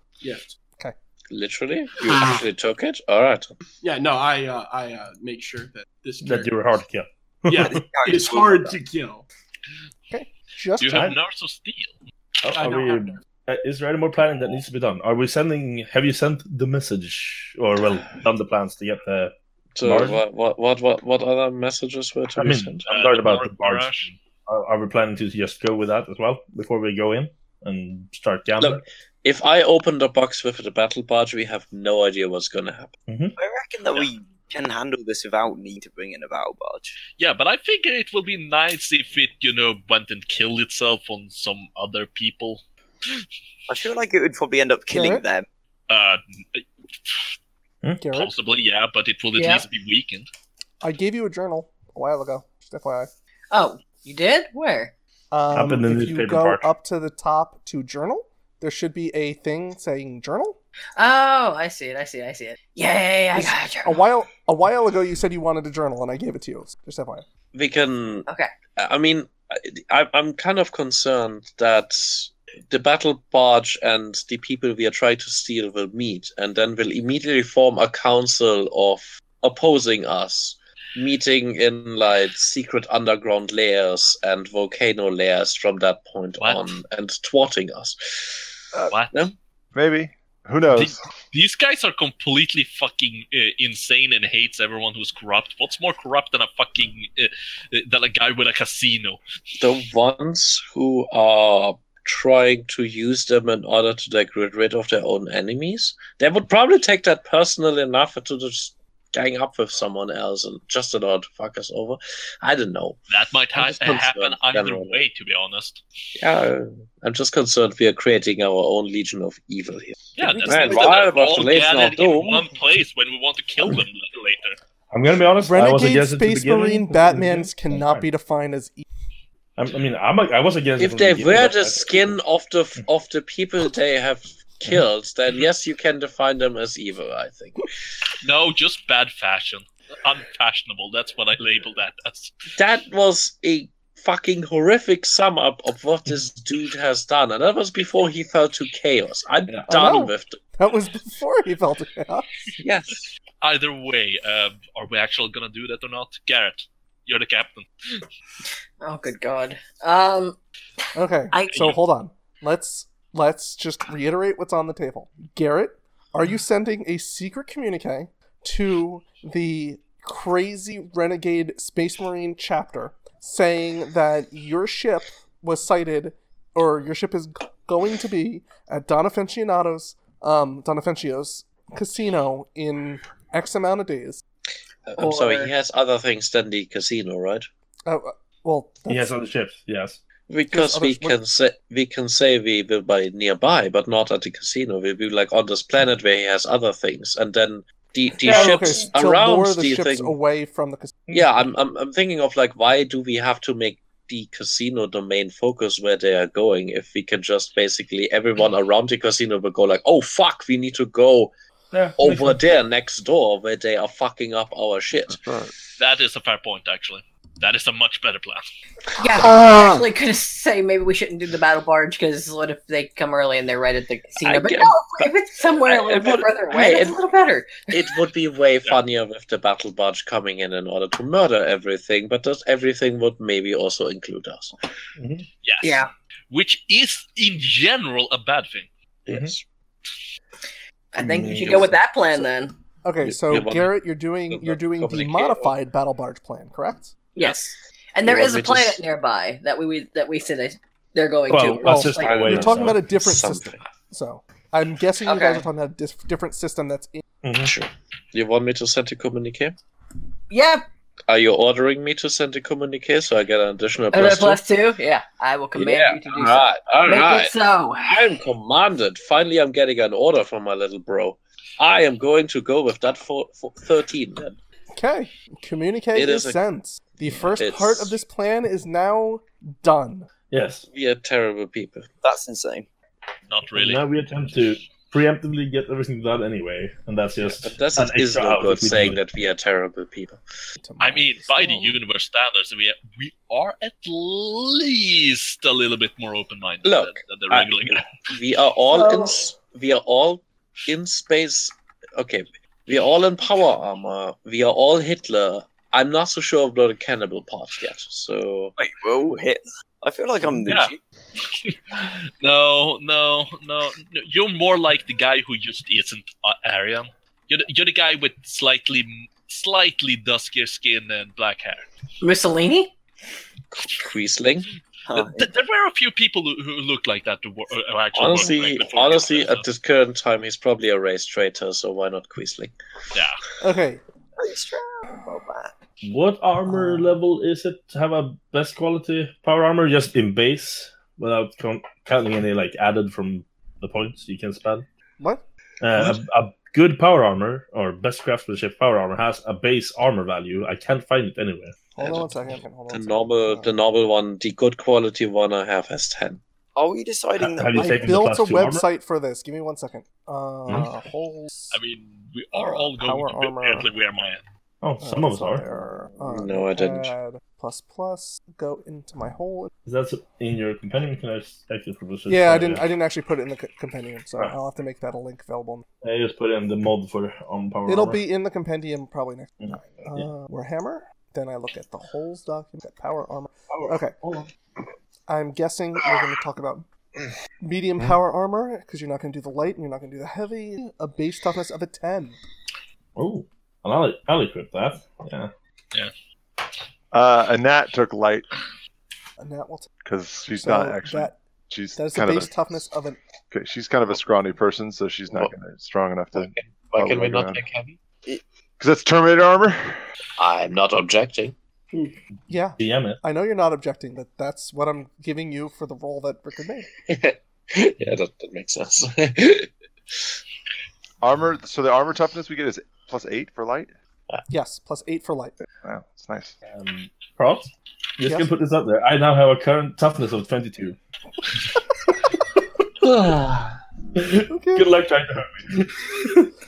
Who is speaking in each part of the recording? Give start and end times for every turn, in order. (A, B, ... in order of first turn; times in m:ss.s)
0:00.2-0:00.6 A
0:01.3-0:03.5 B
0:02.1-0:02.4 A
0:03.8-0:06.7 A
0:06.2-0:07.8 C
0:07.5-0:09.2 A
0:07.5-0:08.8 D
0:10.1-0:11.1 E
0:10.8-0:12.0 F
0:12.4-0:20.2 C
0:12.5-0:13.2 A
0:19.8-0:22.9 B
0:22.4-0:28.8 C
0:22.9-0:24.2 F
0:28.6-0:33.0 B
0:33.1-0:33.4 C
0:33.4-0:37.0 D
0:37.2-0:42.6 F
0:43.7-0:45.5 D
0:44.9-0:45.2 E
0:45.9-0:47.2 F
0:48.0-0:48.3 E
0:48.1-0:50.3 F
0:49.4-0:49.6 G
0:50.8-0:53.1 E
0:53.5-0:54.9 G
0:55.3-1:00.6 E
0:55.5-0:56.7 C
1:01.0-1:04.0 G
1:03.4-1:07.2 E
1:07.5-1:28.4 B
1:26.4-1:26.8 F
1:28.9-1:29.3 F
1:29.8-1:31.0 H
1:30.7-1:39.2 F
1:39.6-1:53.0 B
1:53.1-1:55.8 F
1:53.5-1:55.0 B
1:56.2-2:02.5 B
2:00.2-2:04.6 F
2:00.4-2:00.8 E
2:04.9-2:08.1 C
2:05.4-2:08.8 E
2:09.6-2:12.2 C
2:10.8-2:17.7 B
2:18.2-2:22.4 F
2:22.6-2:30.4 B
2:29.7-2:32.5 E
2:32.6-2:33.1 B
2:33.4-2:37.7 F
2:38.8-2:40.4 G
2:41.0-3:04.2 E
2:41.3-2:41.6 G
2:41.5-2:41.8 F
3:04.9-3:07.5 B
3:05.0-3:05.5 G
3:07.9-3:09.1 E
3:08.9-3:10.0 C
3:10.3-3:20.2 B
3:10.5-3:11.2 E
3:18.1-3:21.0 E
3:18.3-3:18.6 C
3:21.1-3:31.3 B
3:31.7-3:32.4 C
3:32.0-3:35.2 B
3:35.1-3:35.5 H
3:35.8-3:38.4 F
3:39.0-3:47.9 G
3:44.2-3:45.1 B
3:45.6-3:47.1 B
3:47.7-3:54.6 B
3:55.0-3:55.3 C
3:55.4-3:58.7 F
3:55.6-3:55.9 G
3:59.1-3:59.4 B
3:59.1-3:59.3 C
4:00.9-4:02.5 G
4:01.0-4:01.7 C
4:02.8-4:07.1 E
4:03.0-4:03.7 B
4:04.3-4:05.5 B
4:07.2-4:12.3 G
4:08.0-4:08.8 B
4:11.3-4:12.9 C
4:11.6-4:17.0 E
4:11.9-4:13.6 B
4:15.1-4:15.4 G
4:17.2-4:17.5 C
4:17.4-4:19.6 B
4:20.3-4:20.6 G
4:21.1-4:24.4 B
4:23.9-4:28.1 G
4:25.6-4:27.4 B
4:27.9-4:34.4 B
4:34.8-4:40.1 E
4:36.0-4:36.4 B
4:37.1-4:38.0 B
4:40.3-4:40.6 C
4:40.7-4:41.9 B
4:42.0-4:42.7 D
4:43.3-4:43.8 F
4:43.6-4:49.0 C
4:47.2-4:50.2 B
4:50.6-4:51.8 E
4:50.8-4:58.0 F
4:56.6-4:57.0 B
4:58.0-5:08.6 B
4:58.7-4:59.3 E
5:08.6-5:10.8 D
5:10.4-5:10.7 F
5:11.4-5:21.7 F
5:22.0-5:22.7 G
5:23.5-5:24.5 B
5:24.9-5:25.3 D
5:25.0-5:29.5 F
5:27.9-5:32.6 B
5:32.9-5:33.2 F
5:33.4-5:33.8 E
5:34.2-5:35.5 D
5:35.8-5:44.7 C
5:36.5-5:37.0 E
5:45.6-5:51.6 C
5:51.7-5:53.6 E
5:51.8-5:52.1 B
5:52.7-5:56.2 B
5:56.6-5:57.8 D
5:57.2-5:58.6 C
5:57.5-6:01.6 E
6:01.5-6:04.2 F
6:02.4-6:03.7 E
6:04.6-6:05.4 C
6:04.8-6:09.5 E
6:06.1-6:06.9 B
6:09.6-6:12.6 C
6:12.1-6:15.7 E
6:15.8-6:18.0 C
6:17.7-6:24.0 E
6:19.4-6:20.1 C
6:23.5-6:24.3 C
6:25.1-6:26.7 E
6:27.4-6:32.2 E
6:33.0-6:35.3 C
6:36.9-6:38.3 H
6:39.2-6:39.7 E
6:39.8-6:42.4 H
6:40.4-6:41.2 E
6:41.8-6:43.0 E
6:43.3-6:47.4 H
6:46.2-6:47.8 B
6:48.6-6:49.8 H
6:50.2-6:51.4 B
6:52.3-6:56.7 E
6:52.6-6:53.0 C
6:56.9-7:00.1 B
7:01.0-7:03.7 H
7:04.3-7:05.4 E
7:05.6-7:06.4 H
7:06.5-7:10.8 C
7:08.0-7:08.3 E
7:14.0-7:16.2 C
7:14.3-7:14.7 E